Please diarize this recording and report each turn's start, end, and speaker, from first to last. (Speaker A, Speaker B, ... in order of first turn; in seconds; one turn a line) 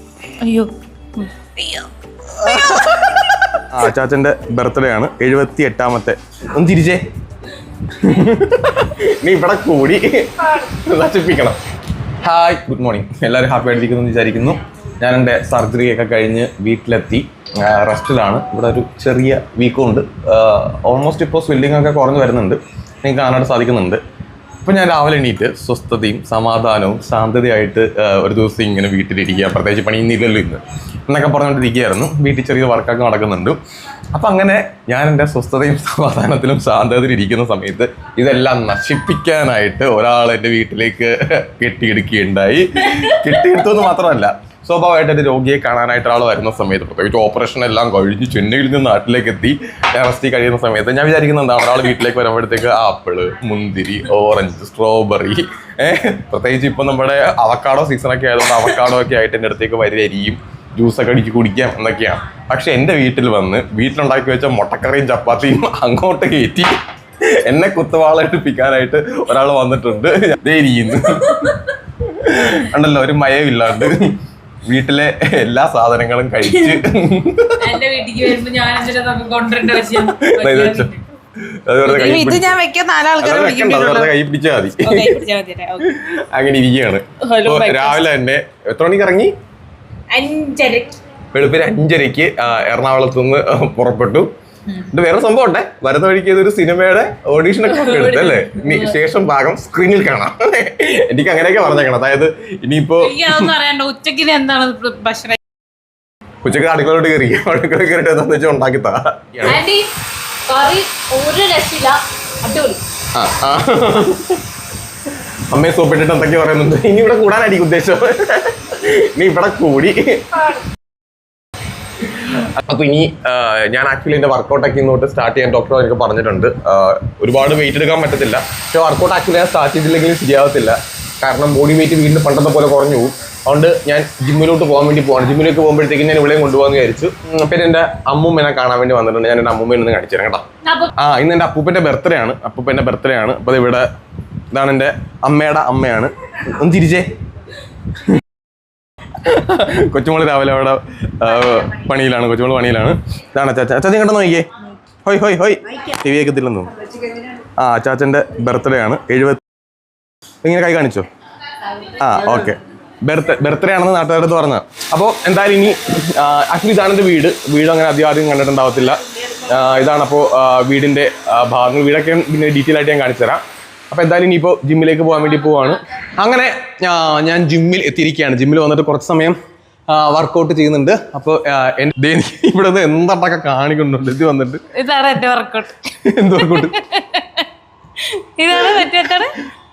Speaker A: 0.4-1.9
Speaker B: 2.4-3.1
Speaker A: 2.4-3.2
Speaker B: 3.7-7.0
Speaker B: 8.0-11.6
Speaker B: 12.2-24.0
Speaker B: 24.6-33.6
Speaker B: 34.1-66.7
Speaker A: 42.9-43.2
Speaker B: 67.3-77.6
Speaker A: 77.6-81.0
Speaker B: 80.0-80.9
Speaker B: 81.5-82.6
Speaker A: 81.8-84.1
Speaker B: 83.2-85.2
Speaker A: 84.8-85.9
Speaker B: 85.8-89.3
Speaker A: 87.2-88.0
Speaker A: 90.1-91.0
Speaker B: 91.3-103.5
Speaker A: 97.6-99.0
Speaker A: 103.0-105.4
Speaker B: 106.4-109.6
Speaker A: 109.4-109.9
Speaker A: 110.5-112.8
Speaker B: 113.1-114.4
Speaker B: 115.5-120.5
Speaker B: 122.4-140.4
Speaker A: 140.7-140.9
Speaker B: 141.0-143.9
Speaker B: 144.5-147.1
Speaker B: 149.2-154.5
Speaker B: 155.1-156.7
Speaker B: 157.6-159.4
Speaker B: 160.4-161.1
Speaker B: 161.9-179.3
Speaker B: 179.9-184.6
Speaker A: 184.7-185.8
Speaker B: 186.0-186.8
Speaker A: 186.4-187.5
Speaker A: 188.0-189.3